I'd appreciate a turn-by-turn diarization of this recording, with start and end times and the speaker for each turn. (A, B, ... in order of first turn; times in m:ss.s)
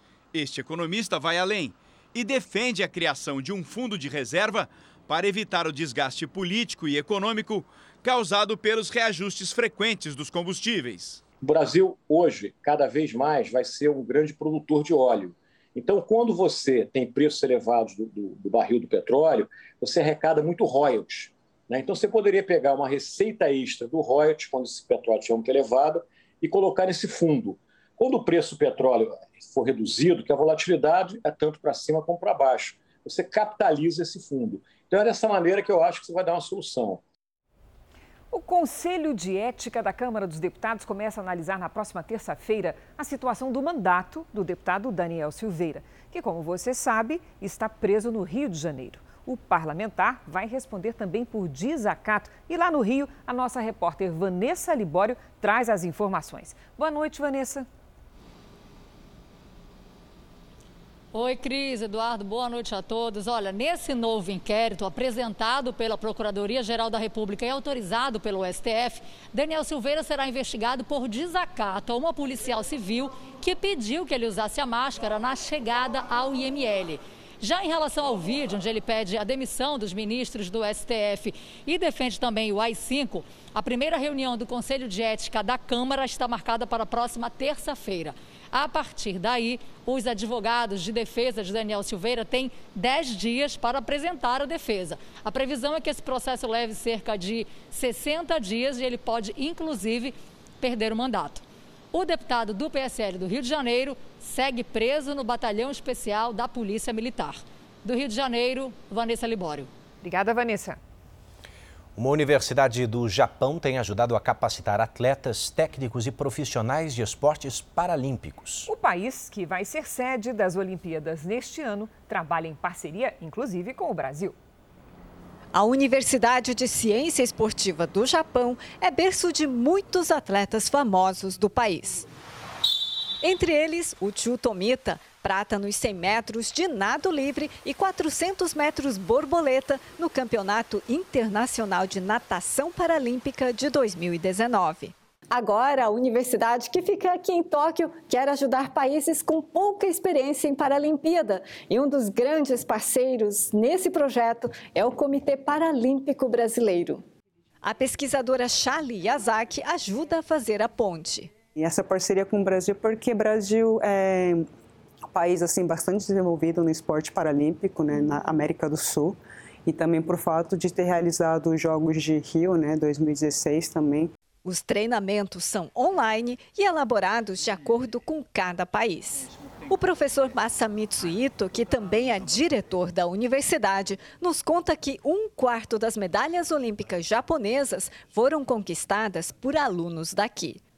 0:00.3-0:11.2 A
0:11.4-0:37.0 B
0:38.3-0:57.7 C
1:01.1-1:49.7 D
1:50.0-1:50.8 C
1:52.0-1:58.7 E
1:58.7-2:04.4 C
2:05.5-2:12.1 F
2:13.2-2:37.0 F
2:37.6-2:41.4 F
2:41.6-2:43.5 G
2:45.2-2:47.9 G
2:48.5-2:49.0 G
2:49.7-2:53.8 G
2:54.4-3:10.6 F